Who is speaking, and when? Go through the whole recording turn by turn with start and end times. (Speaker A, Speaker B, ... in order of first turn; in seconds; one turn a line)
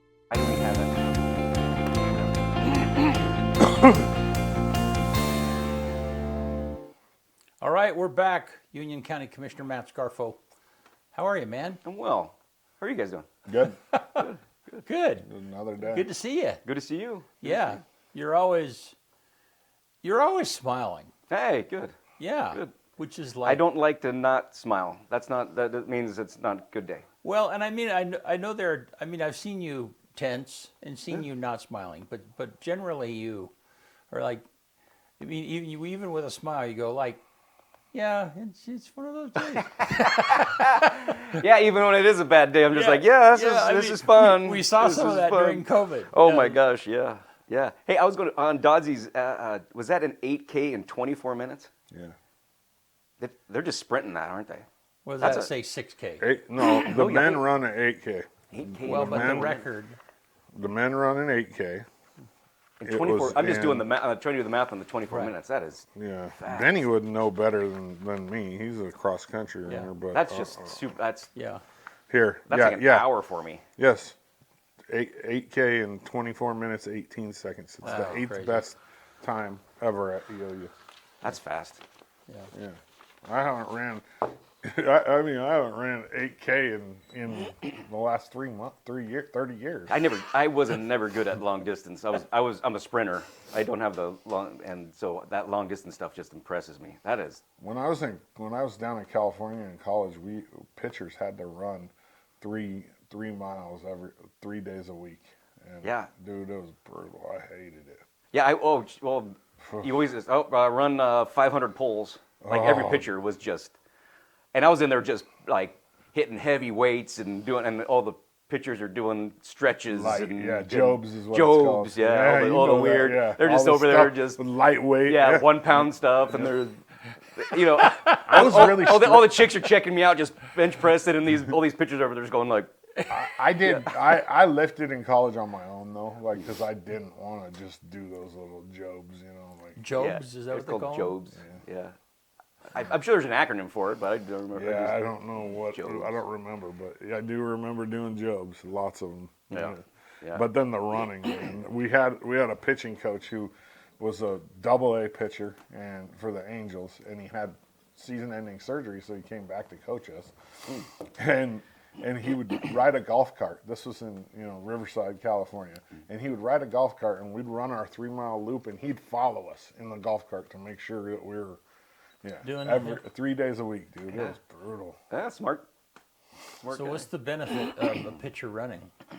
Speaker A: 0.3-3.1
Speaker B: 7.6-10.4
Speaker B: 11.1-11.8
Speaker A: 11.8-13.3
Speaker C: 13.5-13.8
Speaker B: 13.9-14.3
Speaker A: 14.2-14.8
Speaker B: 14.8-15.3
Speaker C: 15.2-16.1
Speaker B: 15.8-16.6
Speaker A: 16.6-17.7
Speaker B: 17.4-18.9
Speaker B: 20.0-21.1
Speaker A: 21.3-22.0
Speaker B: 22.2-23.6
Speaker A: 23.4-27.1
Speaker B: 27.2-33.5
Speaker B: 34.1-34.4
Speaker B: 35.2-37.2
Speaker B: 37.9-41.2
Speaker A: 39.8-51.7
Speaker B: 42.7-46.6
Speaker A: 53.2-54.7
Speaker B: 55.0-56.2
Speaker A: 55.2-55.5
Speaker C: 56.2-59.6
Speaker A: 56.6-57.5
Speaker A: 58.5-59.6
Speaker B: 58.9-60.0
Speaker C: 60.5-61.8
Speaker A: 62.8-65.8
Speaker C: 62.9-63.9
Speaker C: 66.0-70.9
Speaker A: 66.4-66.8
Speaker A: 70.1-71.3
Speaker B: 71.3-71.6
Speaker C: 72.1-73.1
Speaker A: 72.5-73.6
Speaker C: 73.8-74.2
Speaker C: 74.9-80.7
Speaker B: 77.8-78.6
Speaker A: 81.2-81.8
Speaker C: 82.5-84.1
Speaker C: 84.6-90.0
Speaker A: 89.9-97.4
Speaker C: 97.6-108.0
Speaker A: 105.8-106.1
Speaker A: 108.3-113.8
Speaker C: 109.6-110.0
Speaker C: 112.4-113.1
Speaker A: 114.5-124.4
Speaker C: 119.9-125.8
Speaker A: 125.0-132.7
Speaker C: 128.1-129.4
Speaker C: 133.1-139.8
Speaker A: 133.6-134.1
Speaker B: 139.8-141.2
Speaker A: 140.0-141.9
Speaker A: 142.7-145.0
Speaker C: 144.6-171.6
Speaker A: 145.6-146.2
Speaker A: 149.5-150.4
Speaker C: 172.2-175.0
Speaker B: 172.4-173.0
Speaker A: 175.1-175.7
Speaker A: 176.6-177.1
Speaker B: 176.7-178.9